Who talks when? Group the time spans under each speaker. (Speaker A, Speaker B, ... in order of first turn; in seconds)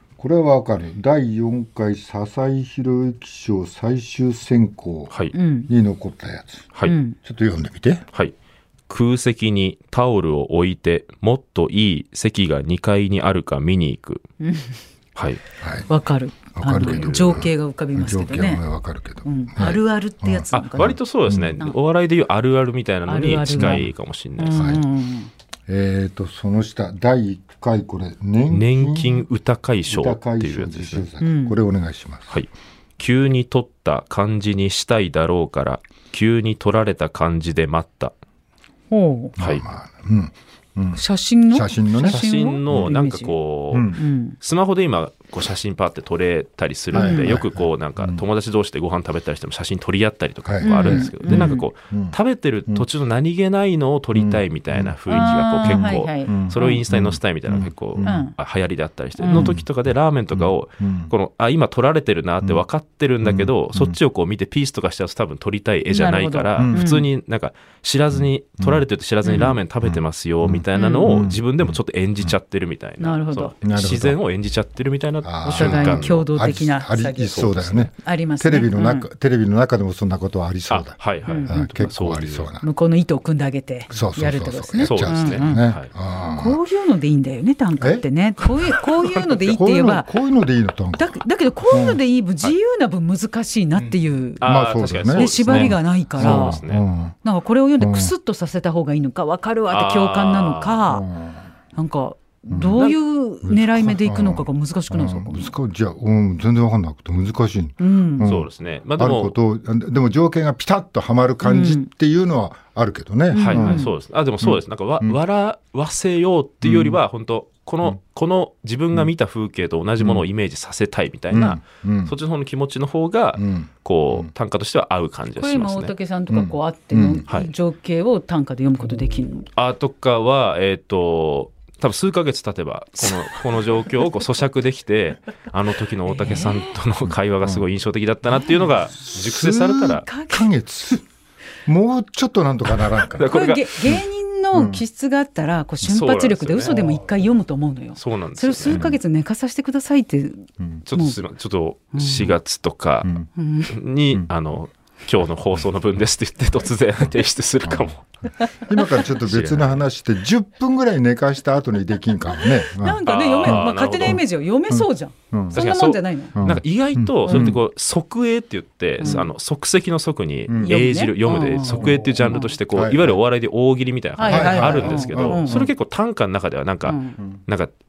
Speaker A: 0.2-5.1, 5.7-6.7, 7.2-8.0, 15.6-15.9, 16.5-21.6, 23.6-23.9, 24.5-24.8, 25.7-29.2, 29.9-32.4, 39.4-42.9, 43.7-44.0, 46.9-48.2, 50.5-52.1, 54.1-58.2, 59.3-59.6, 60.3-61.1, 63.2-64.0, 66.6-66.9, 68.1-68.8, 69.8-72.3, 73.6-74.2, 75.2-82.6, 83.9-86.6, 87.8-88.0, 89.5-91.2, 91.7-92.0, 94.4-97.2, 97.8-98.1, 100.9-101.5, 102.5-113.9, 114.4-115.2, 116.6-117.0, 120.0-120.2, 121.3-122.1, 123.4-124.3, 126.3-127.2, 137.1-137.6, 139.1-141.0, 141.7-143.3, 144.5-144.8, 148.7-149.0, 157.6-157.9, 158.7-165.6, 166.3-167.6, 170.5-170.8, 171.7-173.2, 174.2-175.7
Speaker B: 5.3-5.7, 6.8-7.2, 14.4-14.8, 15.9-18.6, 19.2-21.0, 23.1-23.9, 24.4-25.3, 31.2-31.6, 38.9-39.4, 40.9-43.3, 43.9-44.4, 46.9-47.4, 50.6-51.7, 55.1-56.8, 58.0-58.4, 59.2-59.5, 65.9-67.1, 69.2-69.6, 70.7-71.1, 73.0-73.5, 75.4-77.4, 78.0-79.1, 81.3-81.7, 82.6-85.7, 86.3-90.1, 91.0-94.4, 95.1-96.6, 97.2-101.0, 101.7-105.5, 107.8-108.3, 111.4-111.9, 113.3-113.9, 125.3-129.5, 136.1-136.7, 138.4-138.7, 140.0-140.5, 143.2-151.2, 151.9-152.3, 153.3-153.7, 162.6-166.4, 167.2-167.5, 169.0-169.3, 170.6-172.6, 174.2-175.7, 176.8-177.2
Speaker C: 8.9-14.2, 15.2-15.4, 16.8-17.4, 20.5-24.7, 28.5-31.1, 32.3-38.1, 39.4-39.6, 42.0-76.2, 77.3-77.9, 80.7-82.5, 84.8-85.9, 89.1-89.5, 94.4-96.8, 99.7-100.8, 108.2-109.3, 113.4-125.9, 129.6-140.1, 143.1-143.7, 145.8-146.8, 148.0-148.9, 150.8-158.0, 159.0-159.8, 163.0-164.2, 165.5-177.7